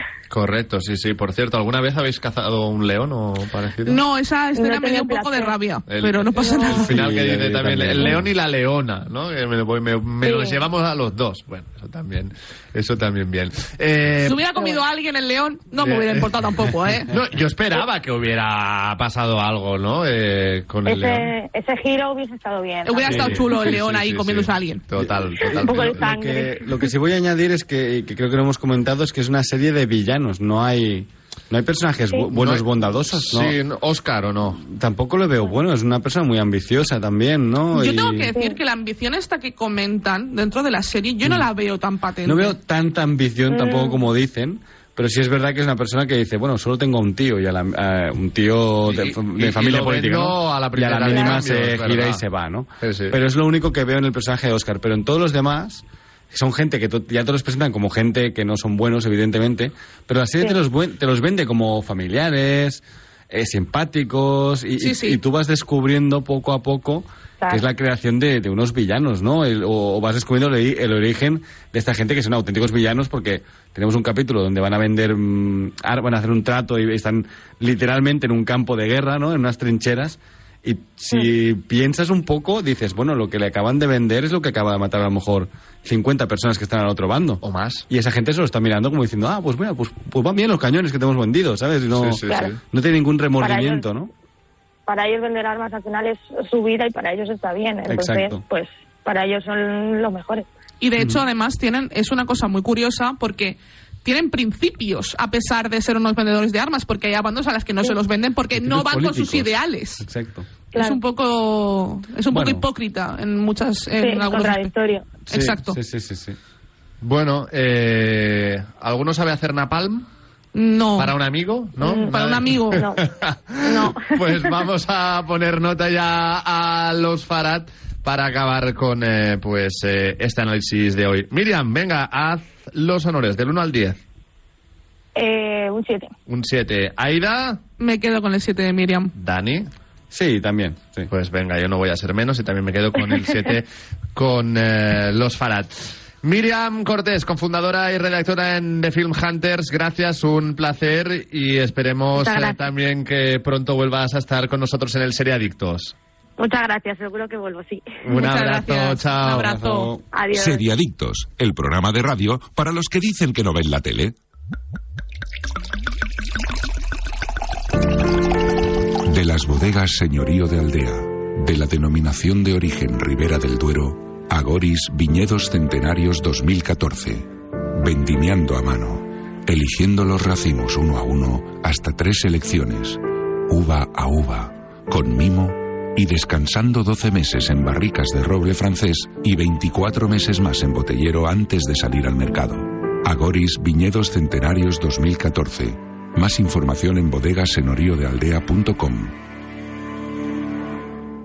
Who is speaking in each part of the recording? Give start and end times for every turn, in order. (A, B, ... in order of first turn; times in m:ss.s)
0:00.3-0:04.0 A
0:03.8-0:06.9 B
0:04.6-0:05.6 C
0:05.9-0:14.4 A
0:06.4-0:06.9 C
0:06.9-0:08.3 D
0:10.2-0:10.6 C
0:14.2-0:17.1 B
0:14.6-0:14.8 C
0:15.8-0:16.3 A
0:17.1-0:21.3 A
0:20.8-0:23.4 C
0:22.8-0:24.8 B
0:23.1-0:26.1 A
0:25.0-0:33.6 D
0:25.4-0:26.9 C
0:32.3-0:34.6 A
0:34.6-0:38.3 D
0:37.7-0:42.5 B
0:38.3-0:38.6 C
0:42.2-1:34.1 D
0:43.5-0:44.0 C
0:48.9-0:52.2 A
0:51.1-0:51.4 C
0:52.8-0:53.2 A
1:04.8-1:05.2 B
1:27.4-1:27.9 A
1:31.9-1:32.6 A
1:32.3-1:32.5 C
1:33.4-1:33.8 C
1:34.9-1:40.5 C
1:37.8-1:38.4 D
1:40.8-1:50.1 B
1:48.5-1:50.5 D
1:50.7-1:51.0 C
1:50.7-1:54.7 B
1:52.3-1:52.6 D
1:54.0-1:55.2 C
1:55.3-1:55.8 B
1:55.3-1:56.4 D
1:57.0-2:00.1 A
2:00.5-2:01.1 B
2:01.0-2:14.0 A
2:01.8-2:02.1 C
2:01.9-2:02.8 B
2:03.6-2:04.6 C
2:15.1-2:16.1 C
2:16.3-2:17.6 A
2:17.8-2:19.1 B
2:19.1-2:19.7 A
2:20.1-2:21.1 D
2:21.1-2:35.9 A
2:32.1-2:32.6 C
2:36.4-2:38.0 C
2:38.0-2:39.5 A
2:38.1-2:39.9 B
2:39.2-2:40.0 D
2:40.1-2:40.6 C
2:40.3-2:44.2 E
2:49.0-3:19.2 E